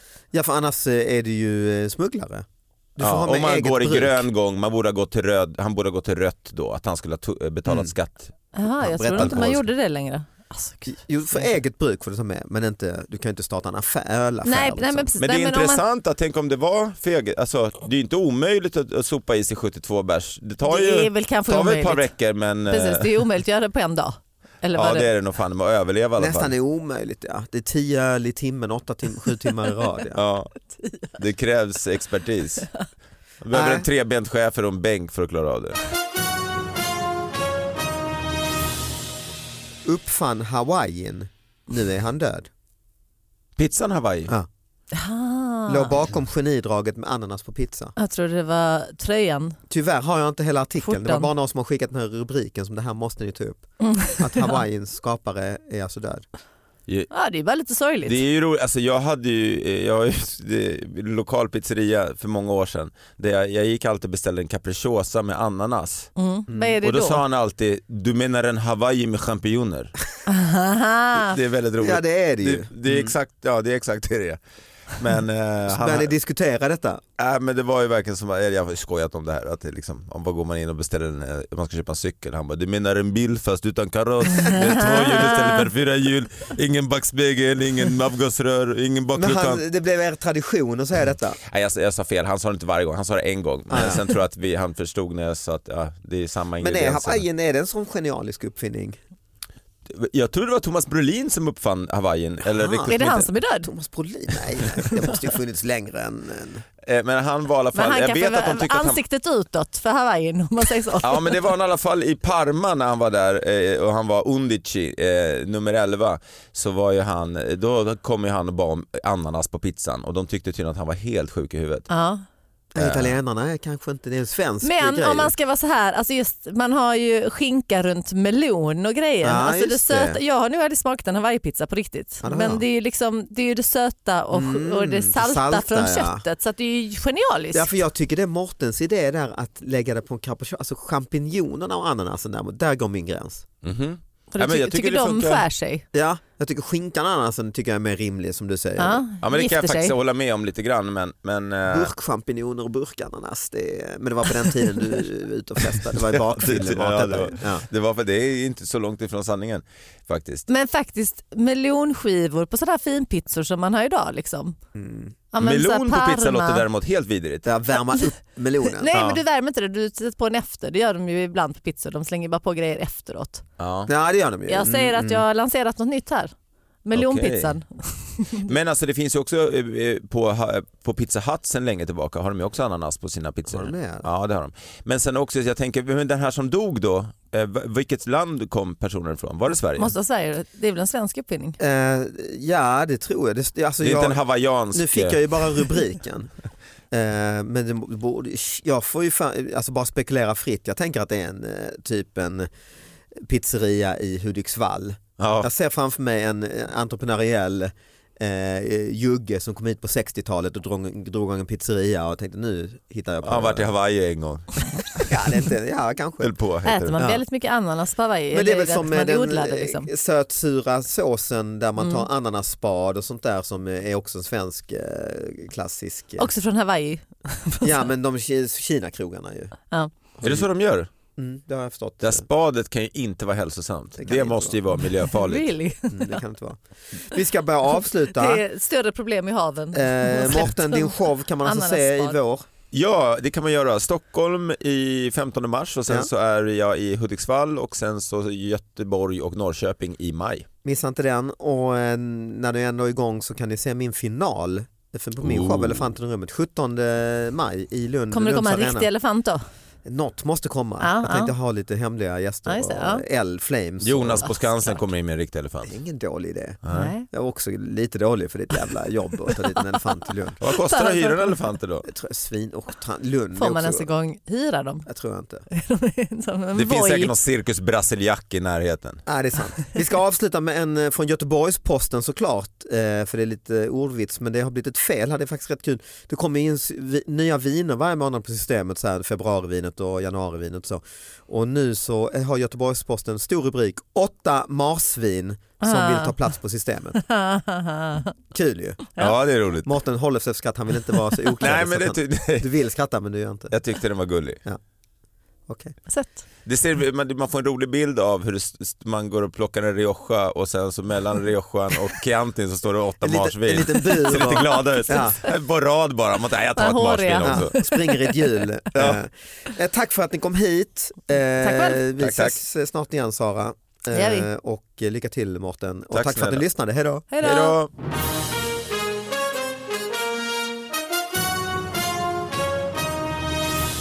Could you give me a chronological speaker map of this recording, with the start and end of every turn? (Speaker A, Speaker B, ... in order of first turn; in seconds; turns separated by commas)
Speaker A: 0.3-4.3, Speaker B: 3.0-8.3, Speaker A: 7.7-7.9, Speaker C: 8.6-11.1, Speaker A: 8.8-9.6, Speaker B: 9.2-9.6, Speaker A: 10.9-15.1, Speaker C: 14.4-15.8, Speaker B: 15.2-23.1, Speaker C: 20.7-22.1, Speaker C: 22.7-25.1, Speaker B: 24.8-26.5, Speaker A: 26.2-30.2, Speaker B: 30.1-30.6, Speaker C: 30.7-31.1, Speaker B: 31.1-32.7, Speaker B: 33.4-35.8, Speaker A: 33.5-33.9, Speaker A: 39.9-42.5, Speaker B: 43.6-44.3, Speaker C: 44.9-45.9, Speaker A: 45.7-47.9, Speaker C: 48.0-49.6, Speaker A: 49.7-53.6, Speaker C: 50.8-51.3, Speaker C: 53.8-54.6, Speaker A: 54.2-56.2, Speaker C: 57.1-58.2, Speaker B: 58.0-66.1, Speaker C: 66.2-67.2, Speaker A: 66.5-66.8, Speaker B: 66.8-70.0, Speaker C: 70.3-71.4, Speaker B: 71.2-74.4, Speaker A: 71.8-73.2, Speaker B: 74.9-76.1, Speaker A: 75.7-77.0, Speaker B: 77.2-89.6, Speaker C: 84.4-85.7, Speaker A: 89.2-91.4, Speaker B: 91.5-97.2, Speaker A: 93.7-94.0, Speaker A: 96.6-99.0, Speaker B: 99.9-103.3, Speaker A: 102.5-102.9, Speaker C: 102.9-103.7, Speaker A: 103.6-106.7, Speaker B: 106.8-109.0, Speaker C: 107.8-111.4, Speaker B: 111.0-121.9, Speaker C: 121.9-122.2, Speaker A: 122.7-125.3, Speaker B: 122.8-123.1, Speaker C: 124.6-137.8, Speaker A: 129.2-130.2, Speaker A: 132.2-132.6, Speaker A: 134.3-136.2, Speaker A: 137.5-143.5, Speaker B: 143.6-145.4, Speaker C: 144.3-145.9, Speaker A: 145.9-149.0, Speaker C: 148.8-149.9, Speaker B: 149.2-151.9, Speaker A: 151.7-157.7, Speaker B: 156.0-160.5, Speaker C: 160.5-164.6, Speaker A: 164.8-165.2, Speaker C: 165.3-166.7, Speaker B: 165.4-167.5, Speaker A: 167.4-168.9, Speaker C: 168.7-173.4, Speaker B: 168.9-169.2, Speaker B: 173.6-173.9, Speaker A: 173.9-175.2, Speaker C: 174.5-176.3, Speaker C: 176.8-178.5, Speaker B: 176.9-177.6, Speaker B: 178.5-189.9, Speaker A: 183.5-184.1, Speaker C: 189.8-191.6, Speaker A: 191.6-194.2, Speaker B: 193.8-195.7, Speaker A: 194.7-196.3, Speaker A: 196.9-202.5, Speaker A: 203.2-213.7, Speaker B: 205.2-205.5, Speaker B: 213.2-215.1, Speaker A: 215.0-216.3, Speaker B: 216.2-217.1, Speaker C: 216.7-219.9, Speaker A: 217.0-217.2, Speaker A: 218.3-226.3, Speaker C: 221.8-222.1, Speaker C: 226.2-227.8, Speaker A: 227.6-229.6, Speaker A: 230.2-230.5, Speaker B: 230.2-230.9, Speaker A: 231.2-232.2, Speaker B: 232.0-235.5, Speaker A: 234.0-234.6, Speaker C: 235.1-236.2, Speaker A: 235.9-238.4, Speaker C: 238.1-242.2, Speaker A: 239.7-242.5, Speaker B: 242.7-250.5, Speaker A: 250.6-258.9, Speaker B: 255.2-255.9, Speaker C: 258.1-259.5, Speaker A: 259.9-264.3, Speaker C: 260.8-261.3, Speaker C: 262.5-263.0, Speaker B: 263.8-265.8, Speaker C: 264.3-264.7, Speaker A: 265.7-270.4, Speaker B: 266.6-266.9, Speaker C: 266.7-267.1, Speaker B: 270.4-271.9, Speaker C: 270.5-271.4, Speaker A: 271.9-273.9, Speaker C: 273.4-274.9, Speaker A: 274.9-275.4, Speaker C: 275.5-277.1, Speaker B: 276.6-279.0, Speaker A: 279.1-297.0, Speaker C: 295.6-296.2, Speaker C: 297.0-298.1, Speaker A: 298.3-298.9, Speaker B: 299.0-299.7, Speaker A: 299.6-303.5, Speaker B: 301.4-302.5, Speaker B: 303.5-304.4, Speaker A: 305.5-305.8, Speaker C: 305.9-306.2, Speaker B: 306.5-317.6, Speaker A: 313.0-315.2, Speaker C: 316.6-318.1, Speaker A: 317.2-327.1, Speaker B: 318.7-319.0, Speaker C: 321.4-321.9, Speaker B: 322.0-322.4, Speaker C: 323.9-324.3, Speaker B: 325.9-326.4, Speaker C: 327.1-327.6, Speaker B: 327.2-327.7